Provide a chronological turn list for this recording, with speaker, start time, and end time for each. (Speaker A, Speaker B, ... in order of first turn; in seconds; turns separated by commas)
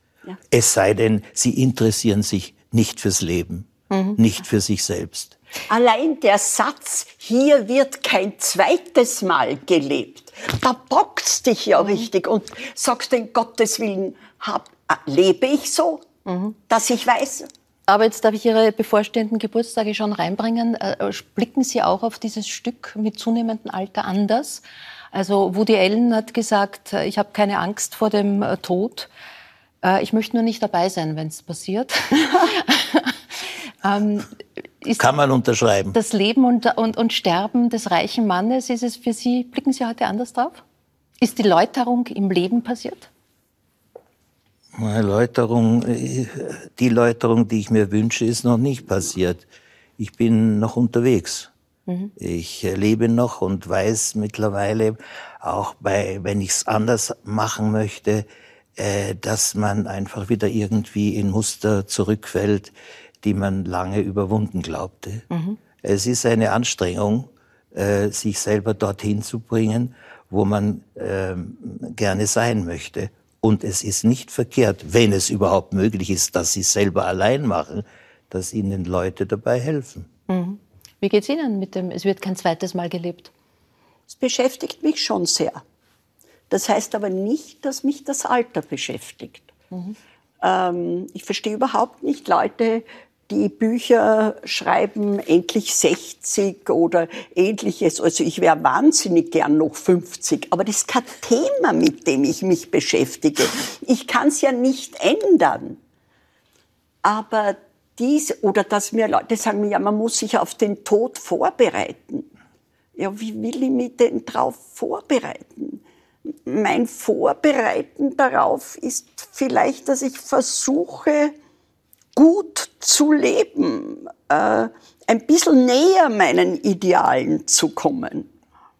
Speaker A: 0.5-5.3, Speaker B: 3.9-4.2, Speaker C: 5.7-16.0, Speaker B: 11.8-12.1, Speaker B: 16.2-16.6, Speaker C: 16.7-17.5, Speaker B: 17.9-29.1, Speaker B: 29.8-33.1, Speaker B: 33.8-35.1, Speaker A: 35.0-36.0, Speaker B: 35.9-40.6, Speaker B: 41.2-43.1, Speaker A: 44.7-49.5, Speaker A: 50.0-51.5, Speaker A: 52.2-58.2, Speaker A: 58.8-65.2, Speaker B: 65.3-65.6, Speaker A: 65.8-80.1, Speaker B: 80.3-83.3, Speaker C: 84.1-85.6, Speaker C: 86.5-89.5, Speaker C: 90.4-105.8, Speaker C: 107.0-112.3, Speaker C: 113.0-115.8, Speaker C: 116.5-121.3, Speaker C: 122.1-128.3